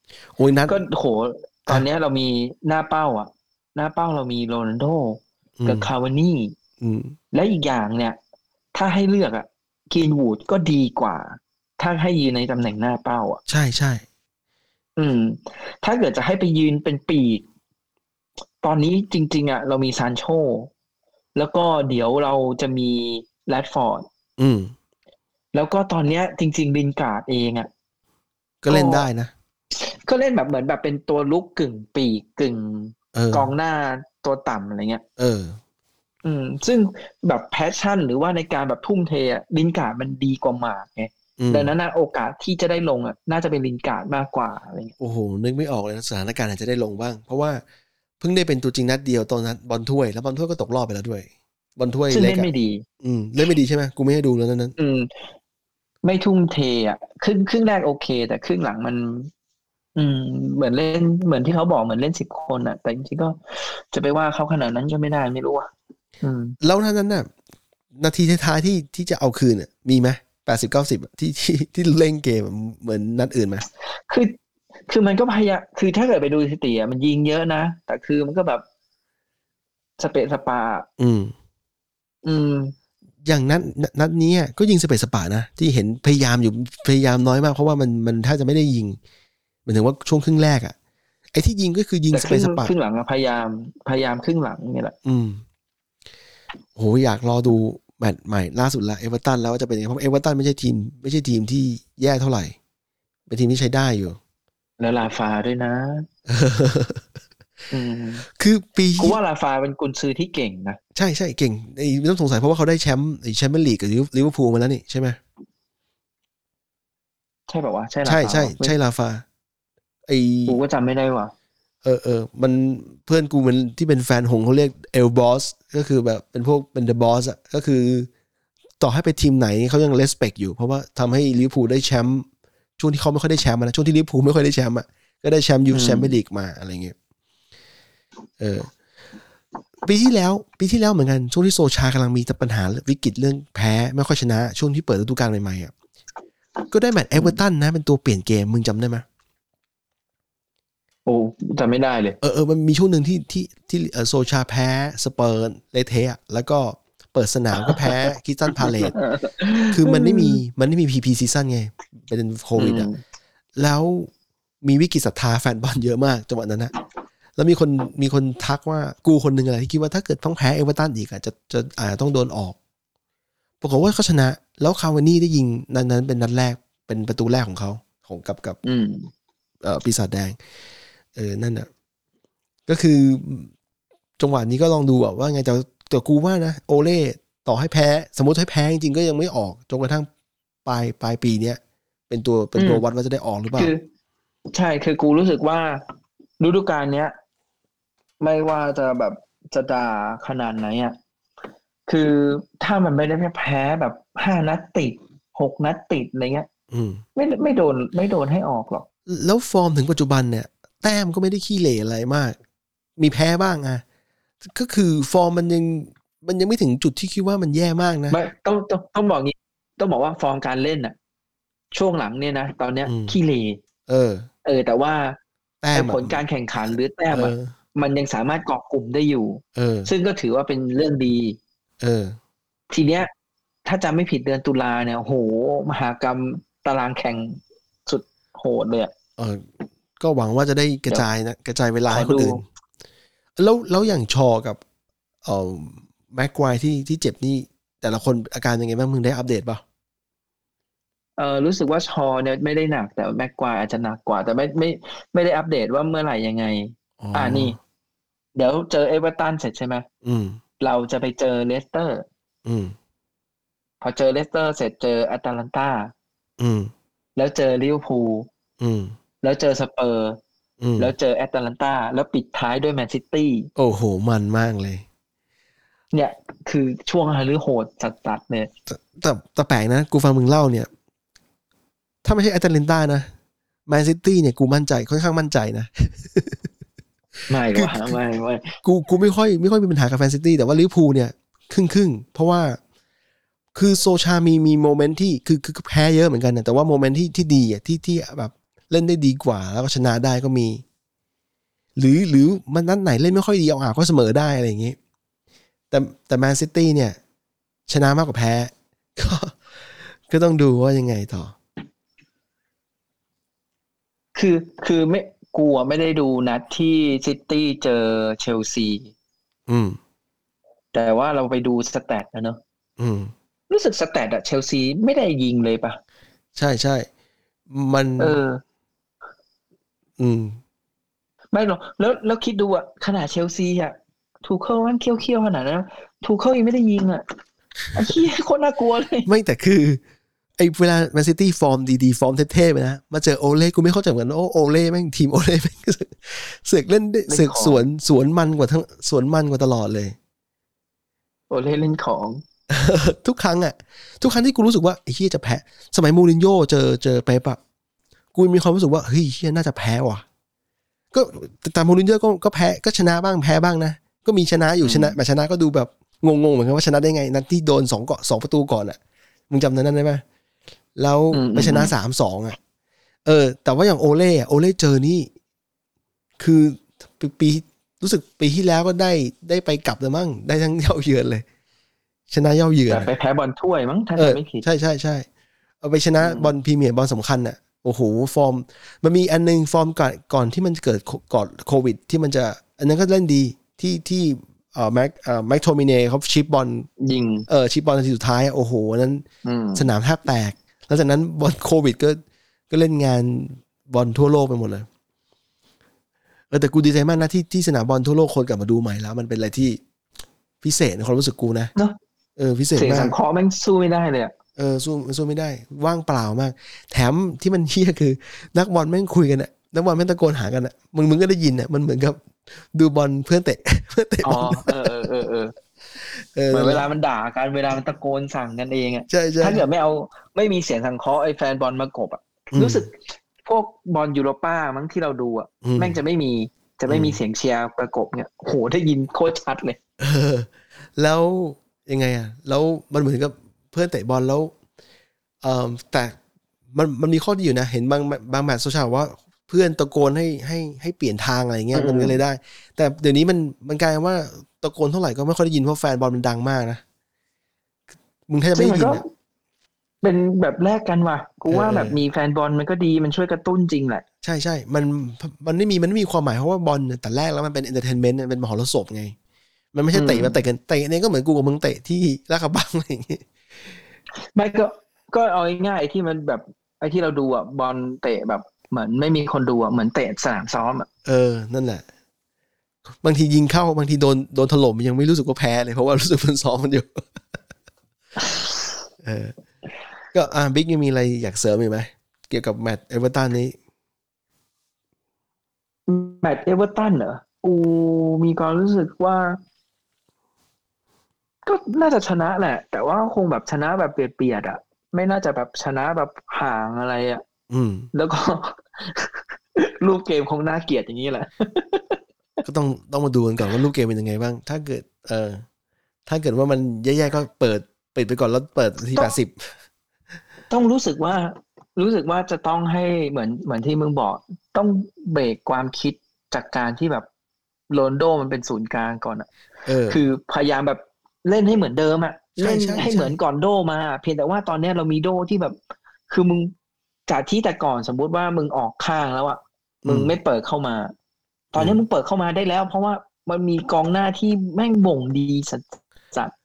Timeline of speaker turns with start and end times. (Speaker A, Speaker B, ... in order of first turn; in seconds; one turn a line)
Speaker A: 0.3-0.8
Speaker B: 0.7-6.5
Speaker A: 5.6-5.9
Speaker A: 6.8-7.2
Speaker B: 7.3-8.2
Speaker B: 8.7-13.4
Speaker A: 13.5-14.0
Speaker B: 15.0-17.4
Speaker B: 18.6-20.7
Speaker B: 21.3-24.1
Speaker A: 24.4-24.7
Speaker B: 25.5-27.7
Speaker A: 28.6-29.3
Speaker B: 28.7-29.1
Speaker B: 29.7-35.0
Speaker A: 33.1-33.5
Speaker A: 35.2-35.6
Speaker B: 36.2-44.9
Speaker A: 41.4-41.7
Speaker A: 45.0-47.6
Speaker A: 48.2-52.5
Speaker B: 52.1-52.8
Speaker A: 53.0-54.7
Speaker B: 54.8-55.1
Speaker B: 56.0-59.3
Speaker B: 60.0-65.7
Speaker B: 66.2-66.5
Speaker A: 66.6-67.3
Speaker A: 67.9-73.6
Speaker B: 74.1-74.3
Speaker B: 74.9-78.6
Speaker B: 80.0-80.9
Speaker A: 81.0-81.3
Speaker B: 82.2-82.7
Speaker A: 83.2-89.0
Speaker A: 89.7-90.7
Speaker A: 91.3-92.7
Speaker B: 92.1-94.9
Speaker A: 95.0-95.4
Speaker A: 96.8-102.5
Speaker A: 103.3-104.2
Speaker B: 104.8-106.1
Speaker A: 106.3-107.0
Speaker B: 107.7-108.2
Speaker A: 108.3-109.2
Speaker B: 109.0-110.8
Speaker A: 110.9-115.2
Speaker B: 117.5-118.7
Speaker A: 118.0-119.2
Speaker A: 120.1-120.6
Speaker B: 120.5-121.3
Speaker A: 121.8-128.1
Speaker A: 128.8-132.3
Speaker A: 132.8-136.9
Speaker B: 135.7-136.2
Speaker A: 138.4-138.7
Speaker A: 139.8-145.7
Speaker A: 146.7-149.0
Speaker B: 151.1-152.2
Speaker A: 152.2-158.9
Speaker B: 157.6-157.8
Speaker B: 158.6-160.4
Speaker A: 159.7-162.9
Speaker B: 162.6-163.0
Speaker A: 163.6-164.1
Speaker A: 164.6-166.7
Speaker A: 167.4-172.6
Speaker A: 173.6-178.6
Speaker B: 178.6-179.1
Speaker A: 179.6-180.4
Speaker A: 181.1-181.7
Speaker A: 182.7-183.5
Speaker A: 184.2-190.1
Speaker A: 190.7-193.7
Speaker B: 192.6-192.8
Speaker B: 193.6-193.8
Speaker B: 194.5-195.8
Speaker B: 196.4-197.1
Speaker B: 198.2-200.9
Speaker B: 201.9-206.5
Speaker A: 206.7-207.0
Speaker B: 207.2-208.8
Speaker A: 209.1-212.4
Speaker A: 213.0-213.8
Speaker A: 214.4-218.2
Speaker B: 218.1-220.9
Speaker B: 221.7-223.6
Speaker A: 222.8-223.2
Speaker A: 223.9-224.3
Speaker B: 224.4-225.2
Speaker A: 225.6-227.5
Speaker B: 225.7-231.4
Speaker A: 229.6-229.9
Speaker A: 231.8-232.2
Speaker B: 232.7-233.1
Speaker B: 233.7-238.9
Speaker A: 239.2-239.5
Speaker A: 240.0-242.4
Speaker B: 241.9-242.4
Speaker A: 243.4-244.6
Speaker A: 245.2-249.6
Speaker B: 251.2-257.6
Speaker A: 257.0-257.6
Speaker B: 258.4-259.9
Speaker A: 260.0-260.4
Speaker B: 260.6-262.1
Speaker A: 262.4-262.7
Speaker B: 263.8-265.9
Speaker A: 266.4-266.7
Speaker B: 267.1-268.3
Speaker A: 268.6-268.9
Speaker B: 269.2-270.2
Speaker A: 270.6-270.9
Speaker B: 270.8-273.5
Speaker A: 273.6-274.8
Speaker B: 275.9-278.5
Speaker A: 278.7-280.7
Speaker A: 282.0-283.1
Speaker A: 283.7-286.5
Speaker B: 287.3-288.5
Speaker A: 287.5-288.0
Speaker A: 288.6-292.6
Speaker A: 293.5-300.6
Speaker A: 301.8-304.8
Speaker A: 305.7-307.0
Speaker A: 307.7-311.3
Speaker B: 314.1-318.9
Speaker A: 319.5-319.8
Speaker B: 320.7-322.4
Speaker A: 322.8-323.1
Speaker B: 323.5-325.8
Speaker A: 326.4-326.9
Speaker A: 327.5-328.2
Speaker B: 328.0-328.4
Speaker A: 330.0-330.4
Speaker B: 331.3-337.0
Speaker B: 337.7-339.1
Speaker A: 339.1-339.8
Speaker A: 340.4-349.9
Speaker B: 347.1-347.6
Speaker B: 351.3-352.2
Speaker A: 352.5-357.4
Speaker A: 358.1-360.0
Speaker A: 360.9-368.8
Speaker B: 364.6-365.0
Speaker A: 369.3-370.0
Speaker A: 370.8-372.4
Speaker B: 371.1-371.7
Speaker A: 373.1-375.1
Speaker A: 376.2-381.2
Speaker A: 382.1-382.9
Speaker B: 382.7-384.4
Speaker A: 383.9-385.1
Speaker A: 385.6-396.7
Speaker B: 386.0-386.3
Speaker B: 396.8-397.3
Speaker A: 397.3-399.0
Speaker B: 399.2-399.7
Speaker A: 399.6-404.7
Speaker A: 406.3-409.6
Speaker A: 410.4-411.5
Speaker A: 412.2-412.9
Speaker B: 412.6-414.1
Speaker A: 414.4-424.7
Speaker B: 424.0-425.4
Speaker A: 425.8-426.7
Speaker B: 426.3-439.6
Speaker A: 428.9-429.4
Speaker A: 432.3-432.7
Speaker A: 435.4-435.8
Speaker A: 436.7-437.0
Speaker A: 439.8-444.3
Speaker A: 445.2-446.0
Speaker A: 446.5-456.6
Speaker B: 451.5-452.0
Speaker A: 458.1-458.8
Speaker B: 458.3-458.8
Speaker B: 459.8-463.8
Speaker A: 461.3-461.8
Speaker A: 464.0-468.9
Speaker A: 469.5-473.1
Speaker B: 469.7-470.2
Speaker B: 474.1-480.7
Speaker A: 480.8-481.6
Speaker A: 482.8-486.9
Speaker B: 488.0-488.4
Speaker A: 488.8-489.1
Speaker A: 489.9-493.4
Speaker B: 495.7-499.2
Speaker B: 501.2-507.0
Speaker A: 507.3-507.7
Speaker B: 507.7-511.8
Speaker A: 512.2-515.2
Speaker A: 515.9-519.3
Speaker B: 520.3-526.9
Speaker B: 527.5-529.1
Speaker A: 529.5-529.8
Speaker B: 529.7-535.4
Speaker A: 532.2-533.0
Speaker B: 535.9-536.3
Speaker B: 536.9-540.7
Speaker A: 539.6-539.9
Speaker B: 541.3-546.1
Speaker A: 541.4-541.6